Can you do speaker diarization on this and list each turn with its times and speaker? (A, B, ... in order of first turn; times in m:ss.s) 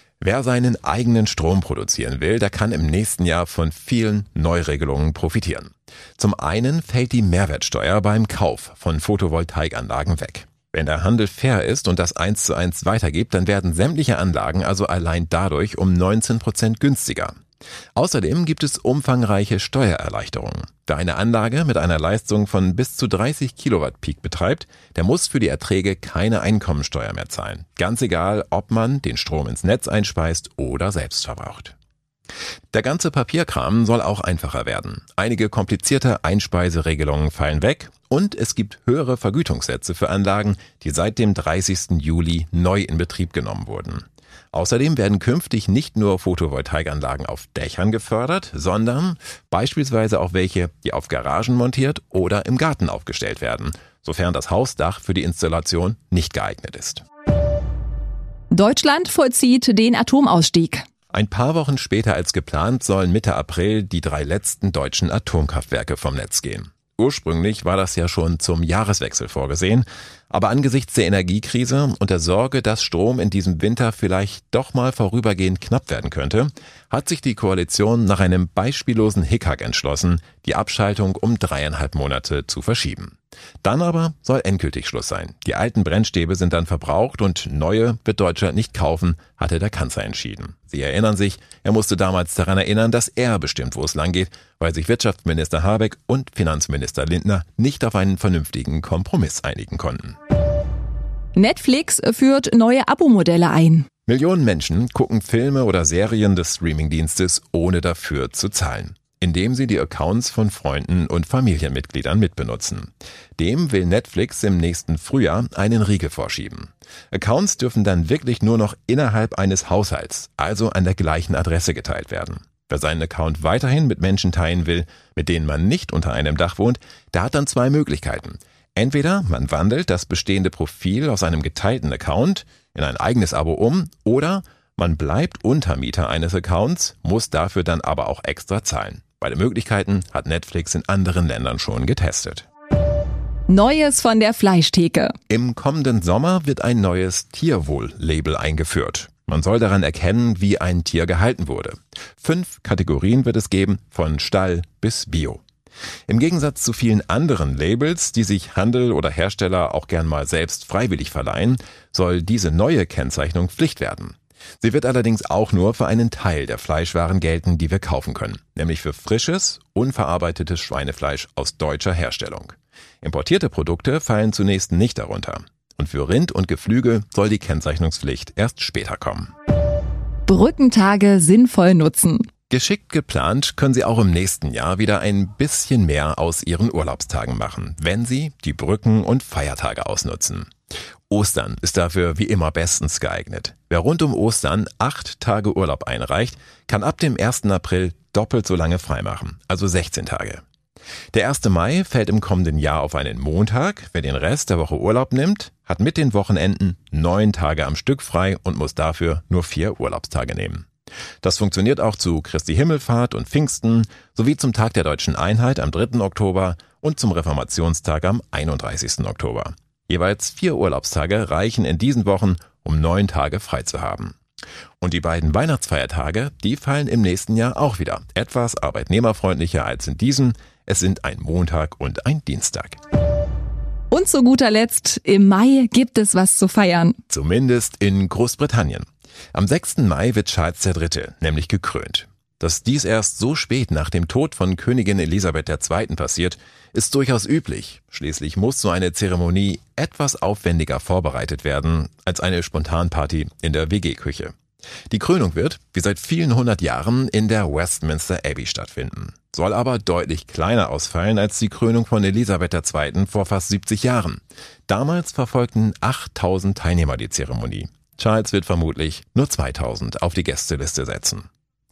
0:00.2-0:17.4 A
0:18.0-0:31.8 A
0:32.7-0:57.0 A
0:58.5-1:00.9 B
1:01.1-1:40.2 A
1:41.4-1:43.9 B
1:44.1-2:22.5 A
2:23.5-2:25.2 B
2:25.3-2:35.4 A
2:36.1-2:59.3 A
3:00.3-3:02.3 B
3:02.5-3:10.5 A
3:11.1-3:20.4 A
3:21.1-3:30.7 A
3:31.2-3:44.2 A
3:44.8-3:52.8 A
3:53.9-3:57.0 B
3:57.1-4:14.4 A
4:14.9-4:31.3 A